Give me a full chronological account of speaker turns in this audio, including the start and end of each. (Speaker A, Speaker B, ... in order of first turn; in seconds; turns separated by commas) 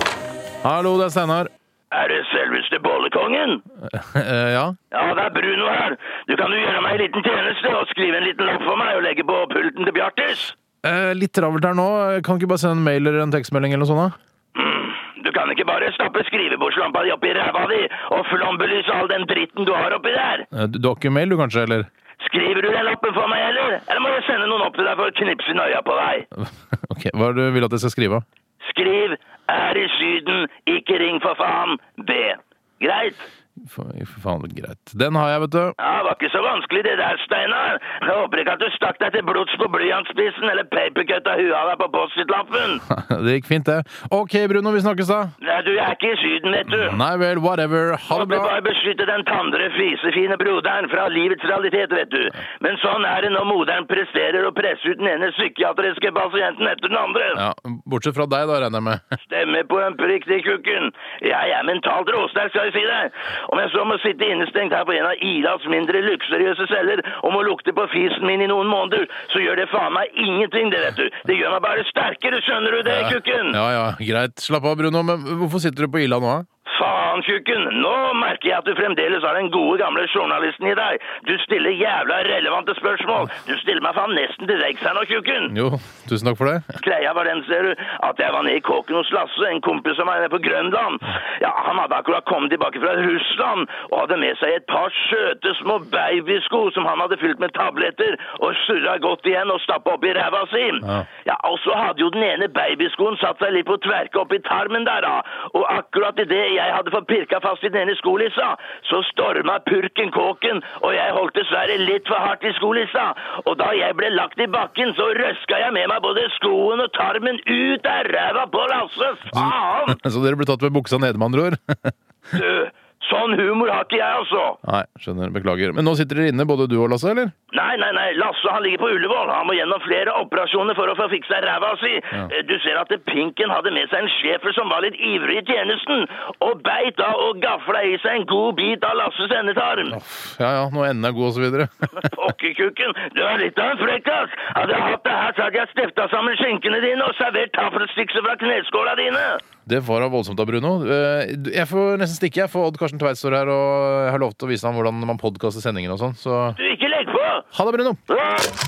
Speaker A: 0.6-1.5, Speaker B: 1.9-3.6, Speaker A: 3.9-4.8, Speaker B: 4.9-10.5, Speaker A: 10.8-14.1, Speaker B: 14.5-20.5, Speaker A: 20.5-21.9, Speaker B: 22.2-26.3, Speaker A: 26.4-28.2, Speaker B: 28.6-33.2, Speaker A: 33.6-35.7, Speaker B: 35.8-42.8, Speaker A: 42.9-45.3, Speaker B: 45.4-47.0, Speaker A: 46.7-48.5, Speaker B: 48.1-57.4, Speaker A: 57.3-59.0, Speaker B: 59.2-73.6, Speaker A: 72.8-76.5, Speaker B: 76.7-85.5, Speaker A: 85.5-86.6, Speaker B: 86.8-120.0, Speaker A: 119.3-121.9, Speaker B: 122.3-124.6, Speaker A: 124.6-127.3, Speaker B: 127.5-140.0, Speaker A: 139.9-141.7, Speaker B: 142.0-149.4, Speaker A: 149.7-156.6, Speaker B: 156.6-157.5, Speaker A: 157.5-158.0, Speaker B: 158.1-158.5